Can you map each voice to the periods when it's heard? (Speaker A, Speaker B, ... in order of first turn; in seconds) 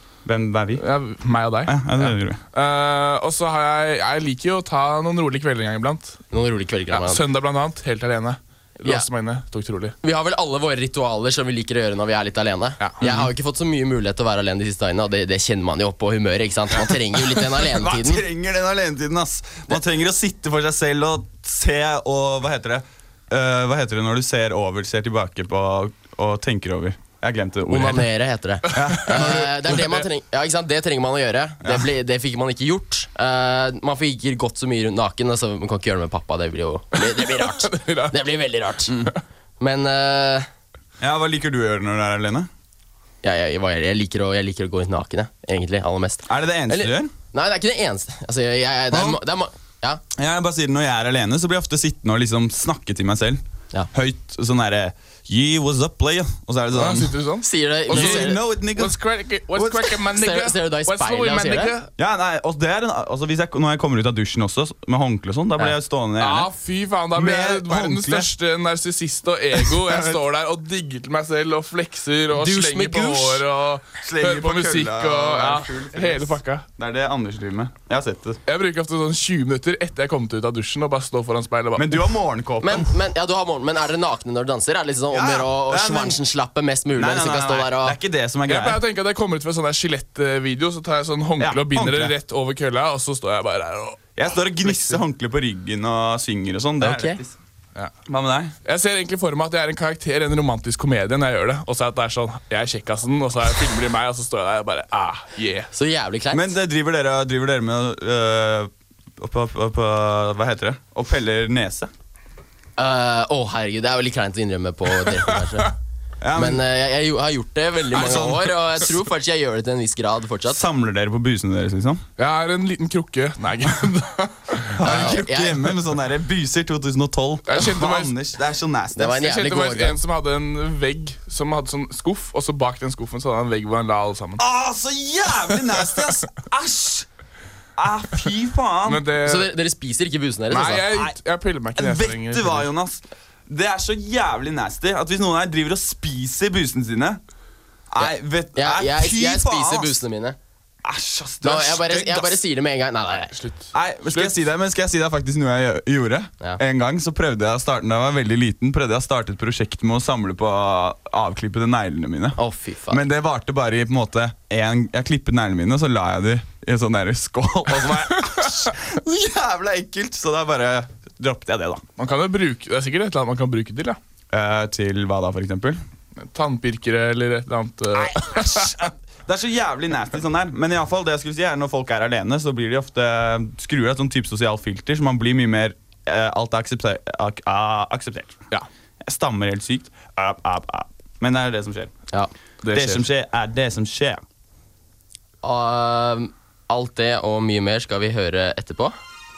Speaker A: 0.2-0.8, 1.6-2.4, 17.5-28.1, 28.7-29.7, 41.0-42.5, 46.3-47.1, 48.9-49.2, 50.1-53.4, 53.9-57.1, 57.9-59.0, 59.5-60.0, 62.0-66.5, 67.1-68.3, 69.6-70.2, 74.0-78.4, 81.8-82.9, 85.1-86.2, 87.0-88.8, 91.4-92.1, 94.2-97.3, 98.1-98.5, 106.3-111.9, 116.2-116.6, 117.9-118.5, 120.5-122.0, 124.8-129.2, 134.4-137.1, 137.8-139.0, 141.8-147.2, 147.9-150.0, 150.8-152.4, 153.7-162.4, 162.9-171.8, 174.3-175.8, 177.9-188.4, 189.0-191.9, 192.7-194.2
Speaker B: 0.8-6.2, 6.9-9.9, 12.8-13.3, 28.7-30.0, 37.0-38.2, 56.7-61.9, 66.2-76.7, 78.5-82.1, 88.5-94.0, 98.6-105.7, 122.2-125.2, 127.5-128.1, 129.1-134.4, 138.8-139.5, 140.5-142.7, 153.4-154.4, 172.0-174.0, 176.2-178.8, 192.6-193.1
Speaker C: 6.3-7.2, 10.0-18.2, 27.7-39.0, 39.6-40.5, 43.2-50.0, 57.4-58.4, 60.1-61.7, 72.3-73.4, 82.6-88.0, 96.8-97.2, 105.7-106.5, 112.8-115.7, 116.3-120.6, 124.8-125.7, 129.0-130.0, 139.2-140.9, 148.0-150.4, 151.4-153.3, 162.4-163.0, 195.4-198.9